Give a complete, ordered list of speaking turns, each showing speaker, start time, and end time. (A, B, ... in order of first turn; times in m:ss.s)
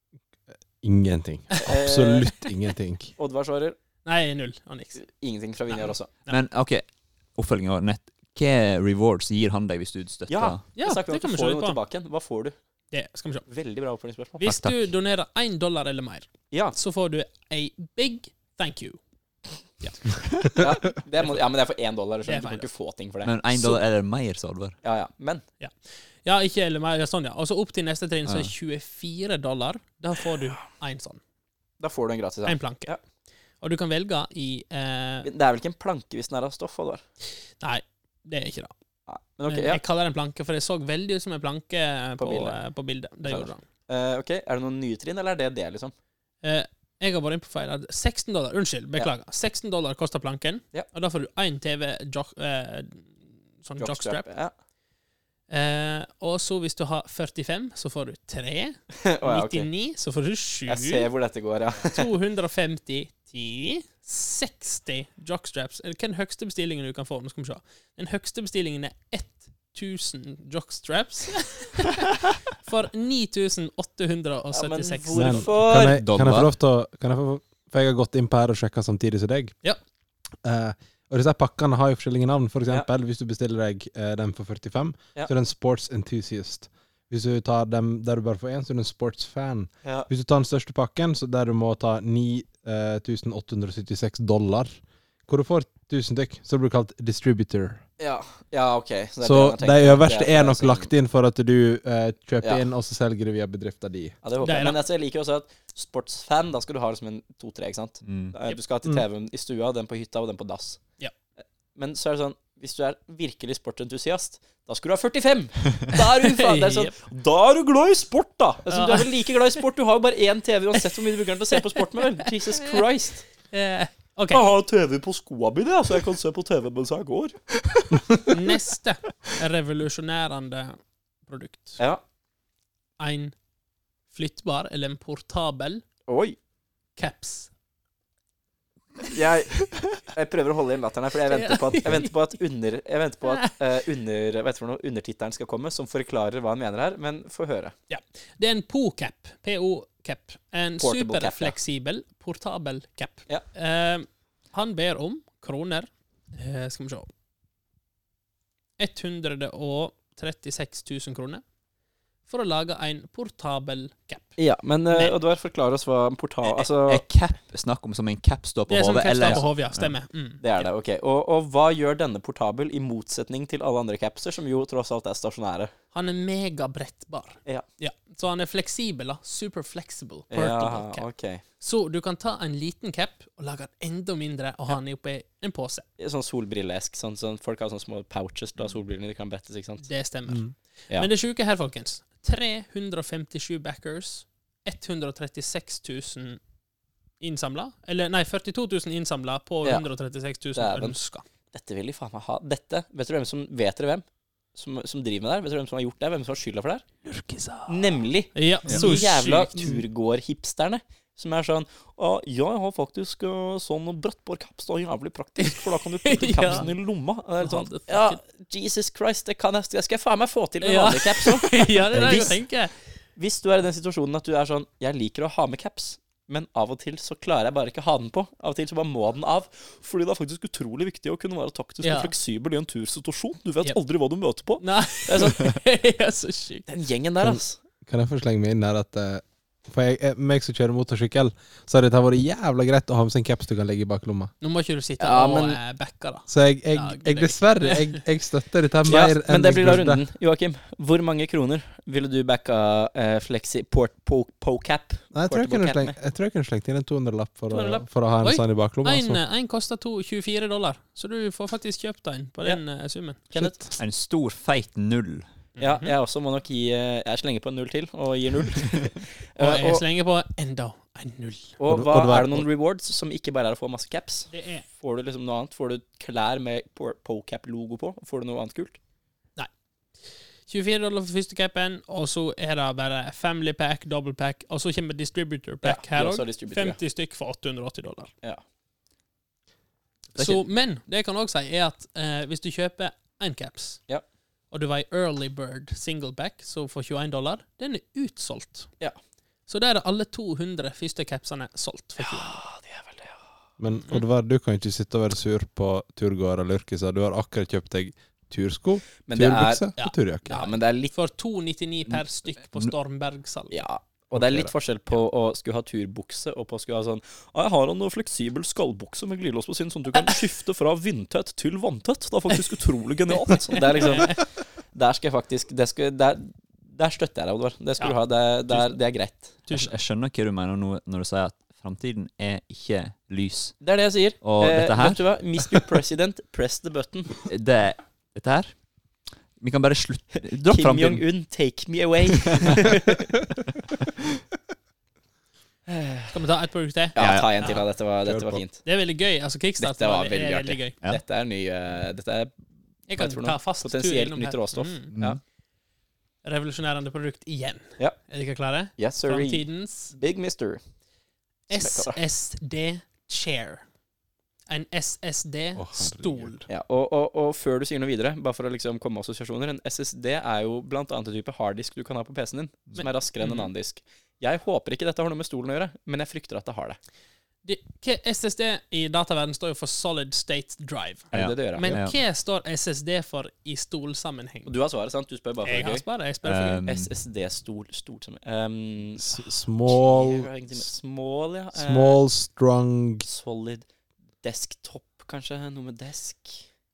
0:00.8-0:03.1 A
0:01.6-0:02.3 B
0:03.2-0:03.8 B
0:04.0-0:05.0 C
0:05.0-0:06.1 B
0:06.3-0:06.8 D
0:07.4-0:10.6 D
0:10.3-0:12.6 B
0:10.8-0:11.8 C
0:12.9-0:13.5 C
0:13.5-0:14.4 B
0:14.4-0:19.0 C
0:14.4-0:14.9 D
0:16.5-0:16.8 B
0:19.8-0:20.1 C
0:20.6-0:23.8 B
0:22.2-0:22.7 C
0:23.2-0:24.8 D
0:24.8-0:25.4 B
0:25.6-0:31.2 C
0:31.8-0:33.0 B
0:32.5-0:32.9 C
0:33.6-0:35.3 C
0:35.2-0:37.0 B
0:37.6-0:38.7 C
0:39.1-0:39.8 B
0:39.5-0:43.6 C
0:42.2-0:42.6 B
0:43.2-0:45.9 B
0:46.4-0:54.3 C
0:53.8-0:54.5 B
0:55.5-1:01.1 C
0:59.0-0:59.7 B
1:00.7-1:02.1 B
1:01.8-1:15.5 C
1:14.5-1:16.0 B
1:15.1-1:19.6 A
1:15.7-1:16.5 D
1:20.4-1:37.8 A
1:38.0-1:40.9 B
1:39.2-1:44.2 A
1:44.2-1:50.8 B
1:44.4-1:44.8 C
1:48.0-1:48.4 D
1:51.8-2:03.3 B
1:56.3-1:56.9 C
1:58.7-1:59.1 C
2:02.4-2:02.9 C
2:03.5-2:04.4 C
2:04.3-2:07.4 B
2:08.3-2:11.8 C
2:13.0-2:13.3 C
2:14.1-2:15.8 C
2:16.1-2:16.4 B
2:17.0-2:17.5 C
2:19.1-2:27.7 B
2:21.3-2:22.1 C
2:23.2-2:23.5 C
2:27.9-2:37.1 C
2:30.8-2:31.6 B
2:38.8-2:41.4 C
2:42.3-2:44.3 C
2:44.4-2:47.0 B
2:46.4-2:50.0 D
2:48.7-2:50.7 C
2:50.4-2:55.7 B
2:55.9-3:01.1 C
3:00.3-3:01.4 B
3:01.6-3:05.8 C
3:06.0-3:09.9 B
3:09.8-3:16.4 C
3:17.2-3:21.2 C
3:20.6-3:21.0 B
3:21.5-3:26.8 B
3:27.0-3:29.8 C
3:27.7-3:42.4 B
3:35.4-3:36.7 C
3:37.4-3:38.2 C
3:40.6-3:42.8 C
3:43.2-3:55.5 B
3:51.8-3:52.1 C
3:54.6-3:56.7 C
3:56.7-3:57.6 B
3:57.2-4:04.3 A
4:04.4-4:08.0 C
4:05.0-4:05.6 B
4:06.3-4:10.0 A
4:08.9-4:16.0 B
4:15.1-4:19.2 A
4:17.5-4:17.8 B
4:18.2-4:23.2 C
4:23.3-4:23.6 B
4:23.3-4:23.8 A
4:23.8-4:25.3 D
4:25.6-4:25.9 C
4:25.6-4:29.8 B
4:29.4-4:31.6 C
4:31.6-4:38.8 B
4:31.7-4:32.5 A
4:34.3-4:34.6 C
4:40.5-4:48.1 C
4:45.6-4:46.8 B
4:50.2-4:53.8 C
4:54.5-4:58.7 C
4:59.5-5:02.5 C
5:02.0-5:03.2 B
5:03.6-5:10.4 A
5:09.1-5:09.6 B
5:09.8-5:13.6 C
5:10.3-5:10.9 B
5:13.5-5:29.5 B
5:14.1-5:14.5 A
5:23.5-5:24.2 C
5:29.5-5:29.7 C
5:29.5-5:33.6 D
5:33.6-5:37.2 B
5:34.2-5:35.7 D
5:37.3-5:38.5 D
5:39.4-5:41.0 D
5:40.5-5:43.1 B
5:42.3-5:42.6 D
5:45.7-5:46.1 B
5:46.1-5:47.6 C
5:47.0-5:48.6 B
5:47.0-5:47.5 D
5:48.0-5:48.4 A
5:48.6-5:50.8 C
5:49.6-5:52.3 B
5:52.9-5:54.9 C
5:53.0-5:55.2 B
5:54.9-5:55.2 D
5:56.2-5:59.9 C
5:58.8-6:00.6 B
6:01.5-6:03.6 C
6:01.5-6:02.0 B
6:04.5-6:06.4 C
6:05.6-6:06.5 A
6:06.5-6:16.8 B
6:12.8-6:13.5 C
6:17.4-6:24.5 C
6:21.1-6:21.7 B
6:21.1-6:22.0 D
6:24.4-6:25.8 B
6:25.4-6:26.6 C
6:26.2-6:26.9 D
6:26.7-6:32.0 B
6:29.0-6:30.6 A
6:31.5-6:33.1 A
6:33.0-6:33.7 B
6:34.2-6:36.5 B